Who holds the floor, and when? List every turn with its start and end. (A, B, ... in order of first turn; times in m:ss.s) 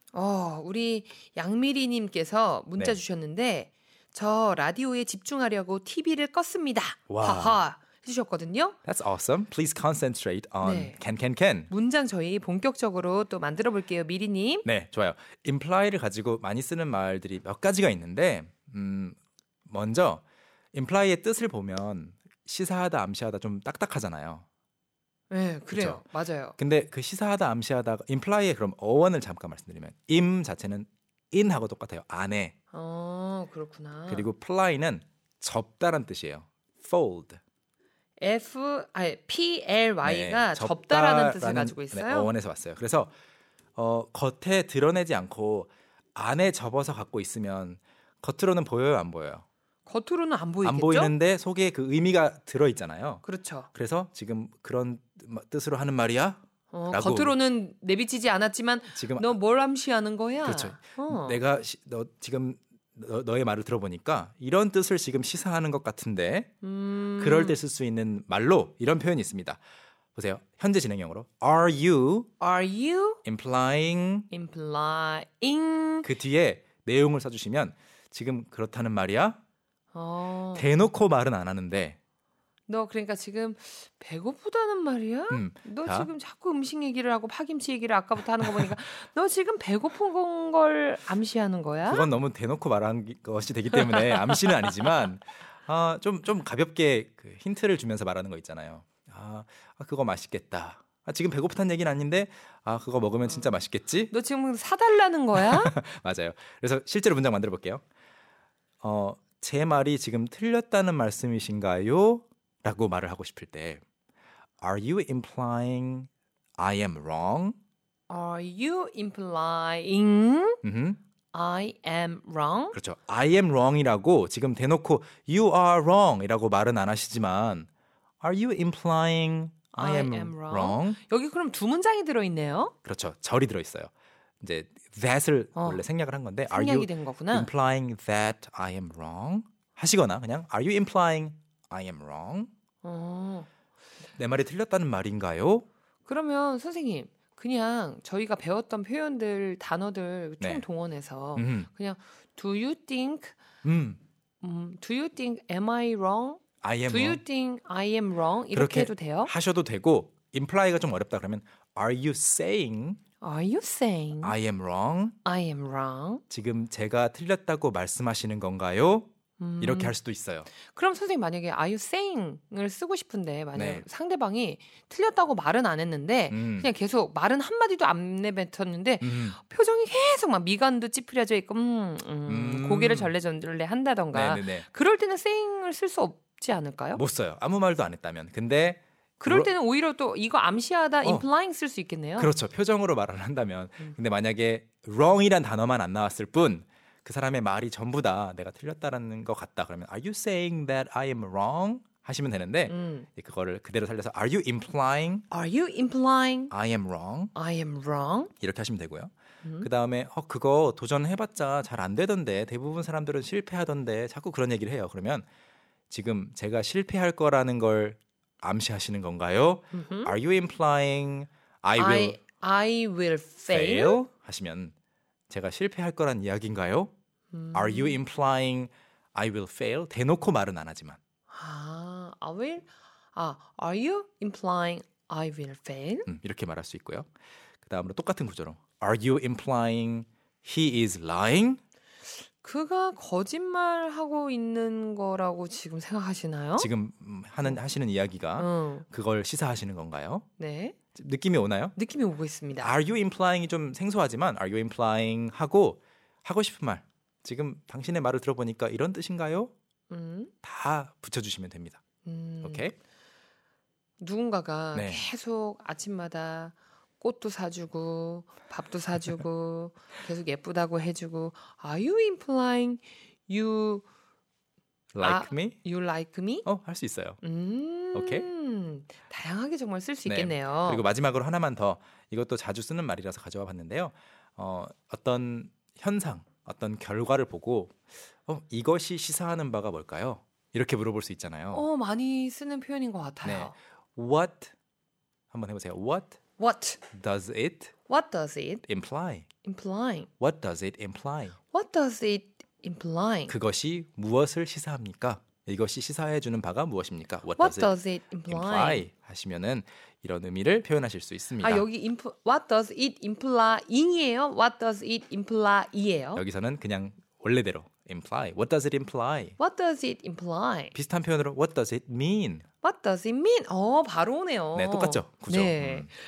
0:00.1-0:08.8 A
0:07.1-0:07.6 B
0:08.8-0:11.7 B
0:10.6-0:11.0 A
0:11.7-0:14.7 A
0:14.6-0:20.2 B
0:20.7-0:24.4 B
0:25.3-0:26.6 A
0:25.7-0:26.0 B
0:26.6-0:32.6 B
0:32.7-0:34.3 A
0:34.1-0:37.4 B
0:38.2-0:42.3 A
0:40.0-0:43.1 B
0:43.8-0:49.4 B
0:49.9-0:51.1 A
0:50.6-0:57.4 B
0:53.2-0:53.7 A
0:56.7-1:01.4 A
0:58.9-0:59.3 B
1:00.4-1:06.5 B
1:06.6-1:07.6 A
1:07.2-1:09.6 B
1:10.2-1:12.3 B
1:12.4-1:13.2 A
1:13.2-1:14.3 B
1:14.3-1:16.1 A
1:16.0-1:19.4 B
1:19.9-1:20.7 A
1:20.5-1:22.0 B
1:22.7-1:32.1 A
1:25.3-1:26.1 B
1:31.9-1:44.1 B
1:33.7-1:34.9 A
1:43.3-1:45.7 A
1:45.4-1:47.8 B
1:48.8-1:53.8 B
1:54.6-1:57.6 B
1:58.1-2:00.6 A
2:00.6-2:01.0 B
2:01.3-2:02.8 A
2:02.7-2:07.7 B
2:08.2-2:11.0 B
2:09.7-2:12.7 A
2:12.8-2:13.9 B
2:14.4-2:22.5 B
2:15.6-2:15.8 A
2:16.5-2:17.5 A
2:22.8-2:23.5 A
2:24.2-2:25.7 B
2:26.1-2:33.4 A
2:30.4-2:30.7 B
2:31.4-2:31.7 B
2:33.6-2:34.0 B
2:34.4-2:39.3 A
2:36.6-2:37.2 B
2:38.5-2:43.0 B
2:43.2-2:44.4 A
2:44.2-2:45.2 B
2:45.2-2:46.2 A
2:46.3-2:49.1 B
2:49.4-2:50.0 A
2:49.6-2:50.5 B
2:50.6-3:07.0 A
2:53.5-2:53.8 B
2:56.3-2:56.7 B
2:59.0-2:59.4 B
3:02.3-3:03.1 B
3:04.1-3:04.7 B
3:07.0-3:09.5 B
3:09.2-3:12.3 A
3:12.2-3:25.3 B
3:22.7-3:23.1 A
3:25.3-3:26.5 A
3:26.5-3:27.3 B
3:27.4-3:28.3 A
3:28.4-3:35.3 B
3:29.4-3:29.7 A
3:35.9-3:42.2 B
3:39.7-3:40.2 A
3:41.8-3:44.0 A
3:43.5-3:44.7 B
3:45.3-3:46.9 B
3:47.3-3:48.0 A
3:47.5-3:51.0 B
3:51.3-3:56.1 A
3:56.1-3:57.1 B
3:57.6-4:01.6 B
4:02.4-4:06.7 A
4:06.6-4:10.2 B
4:08.4-4:08.8 A
4:10.4-4:10.8 A
4:11.0-4:11.8 B
4:11.8-4:12.7 A
4:12.6-4:19.5 B
4:19.9-4:20.3 A
4:20.4-4:21.8 B
4:22.0-4:22.7 A
4:22.4-4:22.8 B
4:24.0-4:33.9 A
4:24.7-4:25.0 B
4:34.9-4:35.6 B
4:35.0-4:36.5 A
4:36.4-4:37.2 B
4:37.2-4:40.9 A
4:37.9-4:38.3 B
4:40.1-4:51.7 B
4:51.5-4:53.6 A
4:53.2-4:54.5 B
4:55.3-4:56.2 B
4:56.4-4:56.8 A
4:56.9-4:57.7 B
4:57.9-4:58.6 A
4:58.7-4:59.3 B
4:59.4-5:00.1 A
5:00.2-5:01.4 B
5:01.5-5:03.3 A
5:03.3-5:07.7 B
5:07.4-5:08.9 A
5:08.3-5:11.7 B
5:11.4-5:16.2 A
5:16.2-5:19.4 B
5:19.4-5:20.8 A
5:20.7-5:22.5 B
5:22.6-5:25.9 A
5:24.6-5:25.9 B